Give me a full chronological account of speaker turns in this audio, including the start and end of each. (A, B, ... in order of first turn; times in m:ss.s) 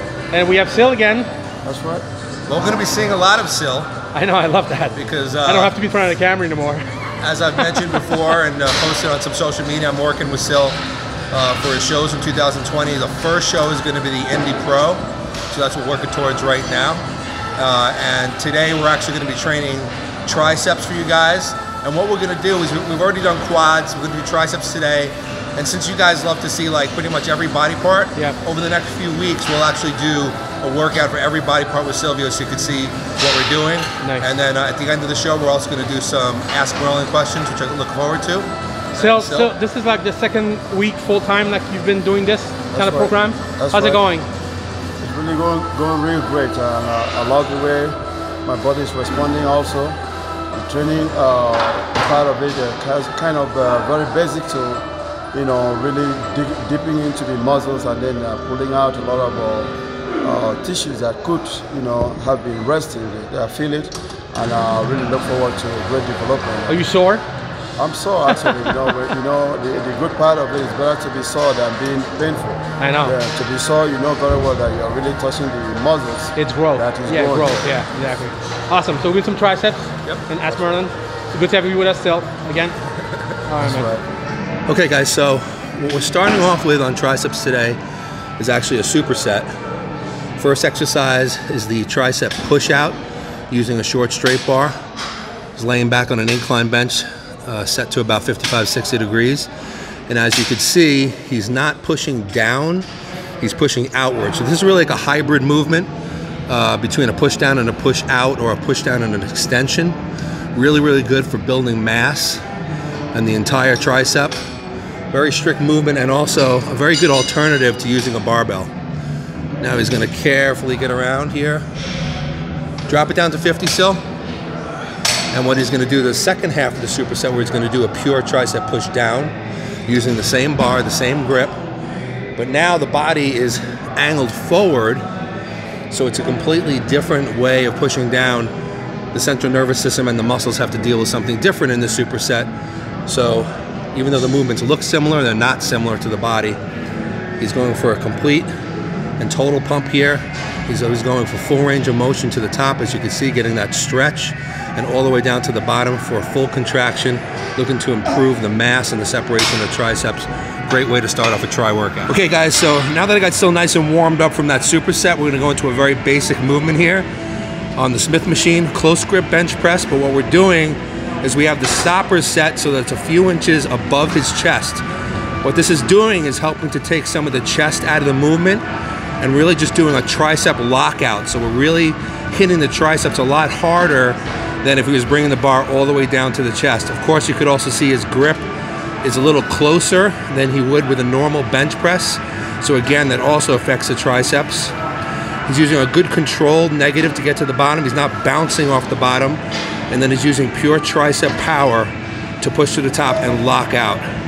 0:00.3-0:01.3 A
0:01.6-0:02.0 B
0:02.5-0:03.9 C
0:04.1-0:06.8 A
0:04.9-0:05.7 C
0:07.2-0:10.8 C
0:11.3-0:17.0 C
0:17.6-0:39.5 C
0:34.0-0:34.3 A
0:38.9-0:44.3 A
0:42.7-0:44.0 B
0:45.0-0:50.0 B
0:50.5-1:06.8 B
1:06.7-1:07.2 A
1:07.8-1:17.6 B
1:12.8-1:13.2 A
1:16.3-1:22.8 A
1:23.4-1:23.9 A
1:23.8-1:24.0 B
1:24.7-1:27.8 C
1:28.4-1:29.5 C
1:30.4-1:33.0 C
1:33.5-1:34.7 C
1:35.5-1:39.5 C
1:40.1-1:42.9 C
1:43.4-1:45.9 C
1:46.5-1:50.0 C
1:50.5-1:52.4 C
1:53.1-1:54.4 C
1:55.1-1:58.7 C
1:59.6-2:01.6 C
2:02.9-2:04.0 C
2:05.3-2:09.3 C
2:09.8-2:11.6 C
2:12.4-2:15.0 C
2:15.9-2:18.5 C
2:19.1-2:22.5 C
2:23.0-2:26.6 C
2:27.4-2:28.5 C
2:29.2-2:47.1 C
2:47.8-2:54.8 C
2:55.4-2:58.6 C
2:59.2-3:08.4 C
3:09.0-3:14.7 C
3:15.4-3:24.0 C